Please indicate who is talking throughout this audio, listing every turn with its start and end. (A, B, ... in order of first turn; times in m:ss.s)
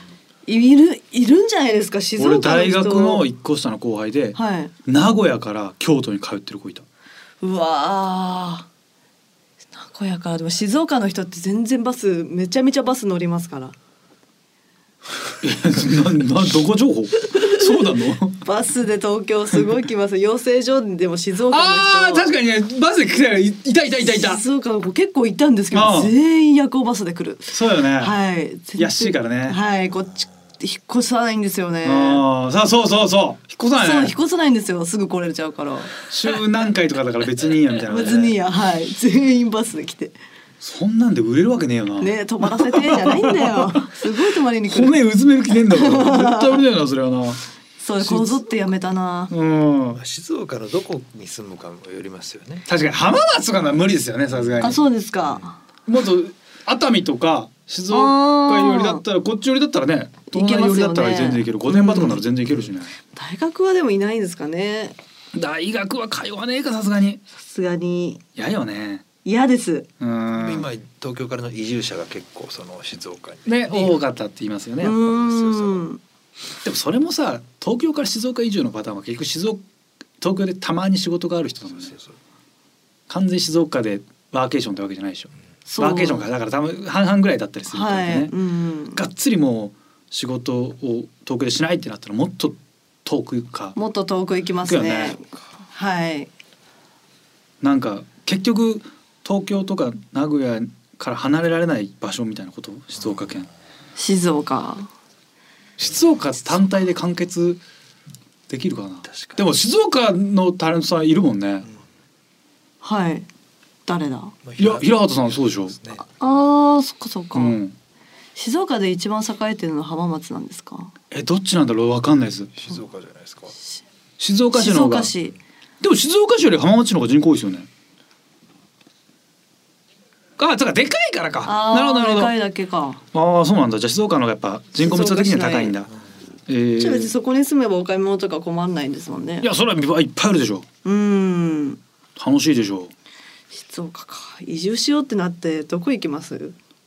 0:00.4-0:03.2 A
0:02.2-0:06.8 B
0:04.4-0:04.7 A
0:07.4-0:08.7 A
0:09.7-0:13.7 A
0:15.4-0:18.4 B
0:17.2-0:22.3 A
0:21.5-0:24.4 B
0:24.0-0:32.2 A
0:25.7-0:26.1 B
0:27.5-0:28.1 B
0:28.8-0:29.6 B
0:31.8-0:34.1 B
0:33.8-0:35.9 A
0:36.1-0:38.4 B
0:37.8-0:40.2 A
0:40.6-0:44.0 B
0:42.0-0:45.0 A
0:44.6-0:47.4 B
0:45.6-0:46.6 A
0:47.8-0:49.3 A
0:48.0-0:48.4 B
0:49.3-0:50.0 B
0:49.9-0:52.7 C
0:52.7-0:54.8 B
0:54.6-0:55.6 A
0:55.9-1:02.9 B
0:57.9-0:59.0 A
1:00.3-1:02.2 A
1:03.1-1:05.0 A
1:05.3-1:07.2 B
1:07.4-1:08.2 A
1:08.4-1:09.0 B
1:09.2-1:09.9 A
1:10.0-1:10.7 B
1:10.3-1:14.0 C
1:13.5-1:15.0 B
1:14.8-1:16.0 A
1:15.0-1:15.9 C
1:16.6-1:19.6 B
1:20.2-1:22.0 B
1:21.9-1:22.1 C
1:23.1-1:28.3 B
1:25.6-1:26.3 A
1:27.7-1:29.0 A
1:28.9-1:33.8 B
1:33.7-1:36.3 A
1:34.6-1:35.2 B
1:37.6-1:43.5 B
1:44.0-1:44.9 A
1:45.8-1:47.6 B
1:48.5-1:51.7 B
1:49.1-1:49.4 C
1:52.8-1:53.3 A
1:53.8-1:54.3 A
1:54.4-1:56.0 C
1:54.6-1:55.8 B
1:56.0-1:57.6 A
1:57.3-1:57.8 B
1:58.4-2:00.9 A
2:01.1-2:02.5 B
2:02.6-2:03.6 C
2:04.2-2:05.1 B
2:04.5-2:05.3 A
2:05.8-2:07.7 B
2:10.4-2:12.3 B
2:11.4-2:13.0 A
2:13.1-2:15.9 B
2:14.8-2:15.8 A
2:16.5-2:17.1 B
2:16.8-2:19.5 A
2:19.4-2:20.6 B
2:20.8-2:21.8 A
2:22.2-2:22.9 B
2:23.5-2:26.6 A